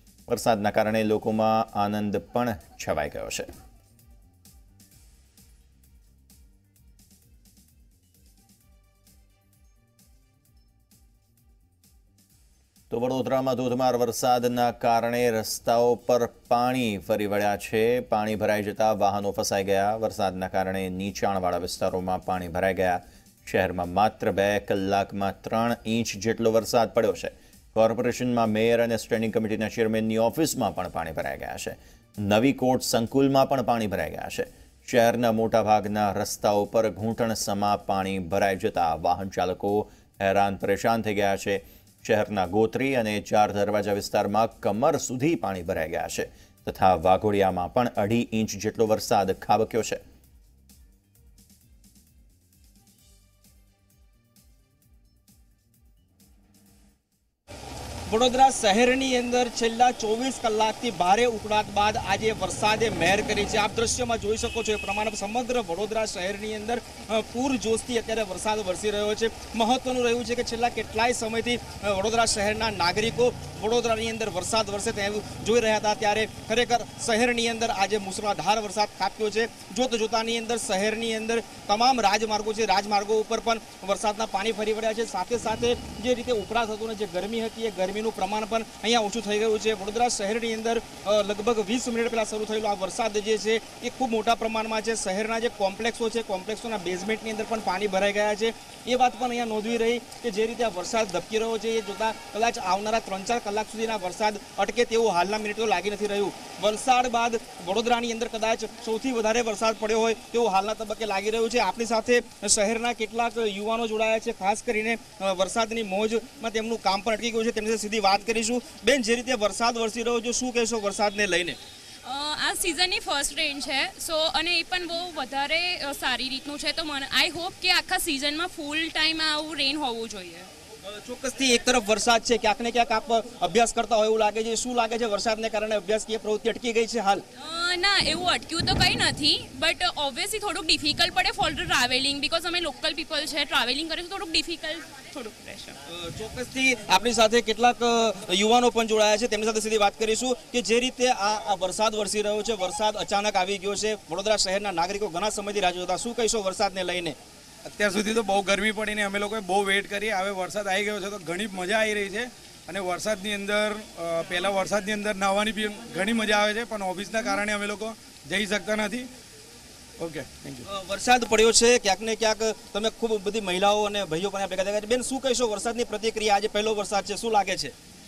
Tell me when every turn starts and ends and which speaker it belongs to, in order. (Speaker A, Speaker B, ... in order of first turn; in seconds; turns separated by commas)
Speaker A: 0.3-3.5, Speaker A: 12.9-50.0, Speaker B: 58.1-121.6, Speaker C: 122.0-130.5, Speaker B: 130.8-137.2, Speaker C: 137.4-145.8, Speaker B: 145.9-157.2, Speaker D: 157.6-169.1, Speaker D: 170.0-170.6, Speaker B: 170.7-177.7